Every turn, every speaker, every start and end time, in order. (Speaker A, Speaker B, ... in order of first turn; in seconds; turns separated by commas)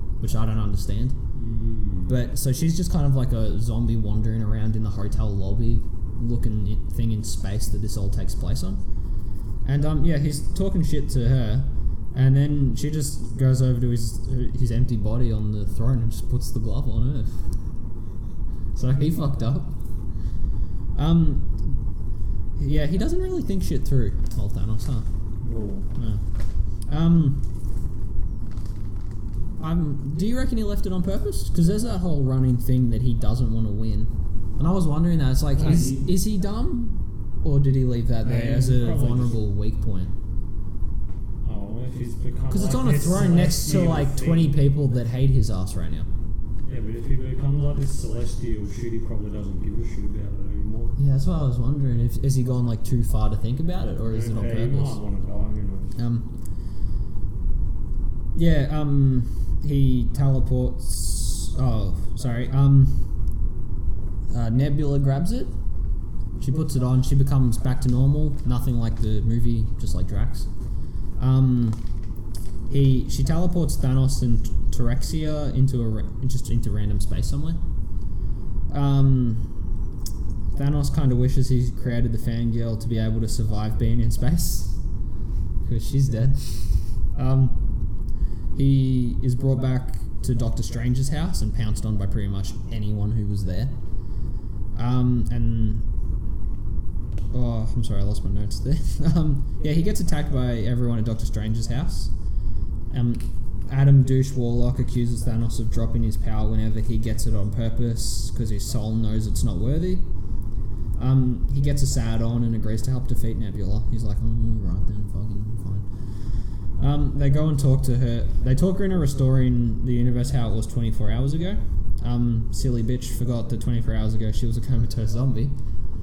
Speaker A: 0.2-1.2, Speaker B: 1.3-2.1, Speaker A: 2.0-8.8, Speaker A: 9.6-17.4, Speaker A: 18.7-19.8, Speaker A: 20.9-21.8, Speaker A: 22.6-25.1, Speaker B: 25.4-25.9, Speaker A: 25.9-26.2, Speaker A: 26.9-27.4, Speaker A: 29.6-40.1, Speaker B: 35.5-36.1, Speaker B: 38.2-39.4, Speaker B: 41.4-44.6, Speaker A: 42.5-46.1, Speaker B: 46.6-51.0, Speaker A: 51.0-55.0, Speaker B: 54.0-56.0, Speaker A: 56.0-56.3, Speaker A: 58.3-63.0, Speaker A: 64.3-65.5, Speaker A: 66.4-70.5, Speaker A: 71.2-71.8, Speaker A: 72.7-77.6, Speaker A: 78.7-79.5, Speaker A: 80.5-84.8, Speaker A: 85.6-87.6, Speaker A: 88.5-93.8, Speaker A: 94.7-95.8, Speaker A: 97.3-102.1, Speaker A: 102.9-110.0, Speaker A: 111.0-115.9, Speaker A: 116.8-125.5